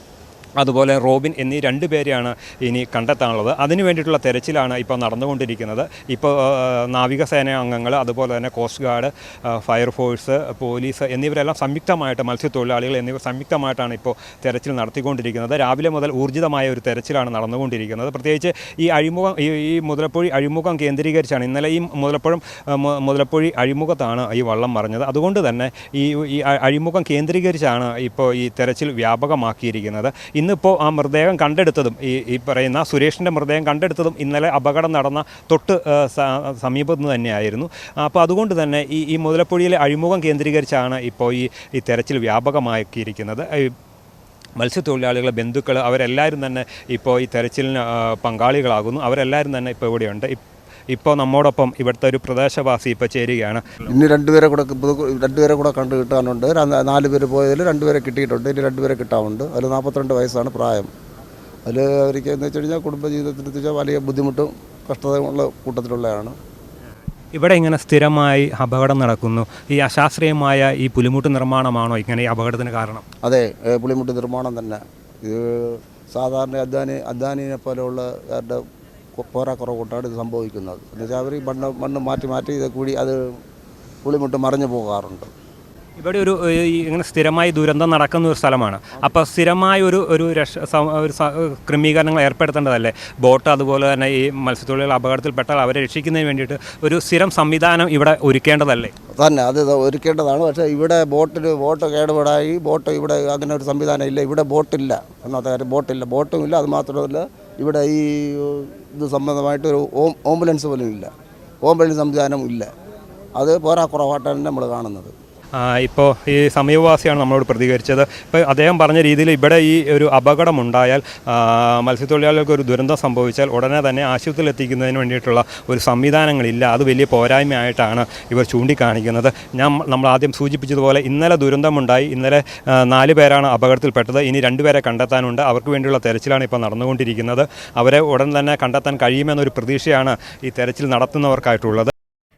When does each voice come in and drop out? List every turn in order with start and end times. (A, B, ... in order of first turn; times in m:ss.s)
0:00.6-0:43.7 A
0:44.6-0:50.4 A
0:50.9-0:53.8 A
0:53.9-1:00.9 B
1:01.6-1:06.3 B
1:07.3-1:13.0 A
1:13.2-1:18.6 B
1:19.2-1:23.4 B
1:24.0-1:25.3 B
1:26.0-1:38.9 A
1:39.2-1:51.1 B
1:51.6-1:52.7 B
1:53.4-1:55.1 B
1:55.6-2:21.9 A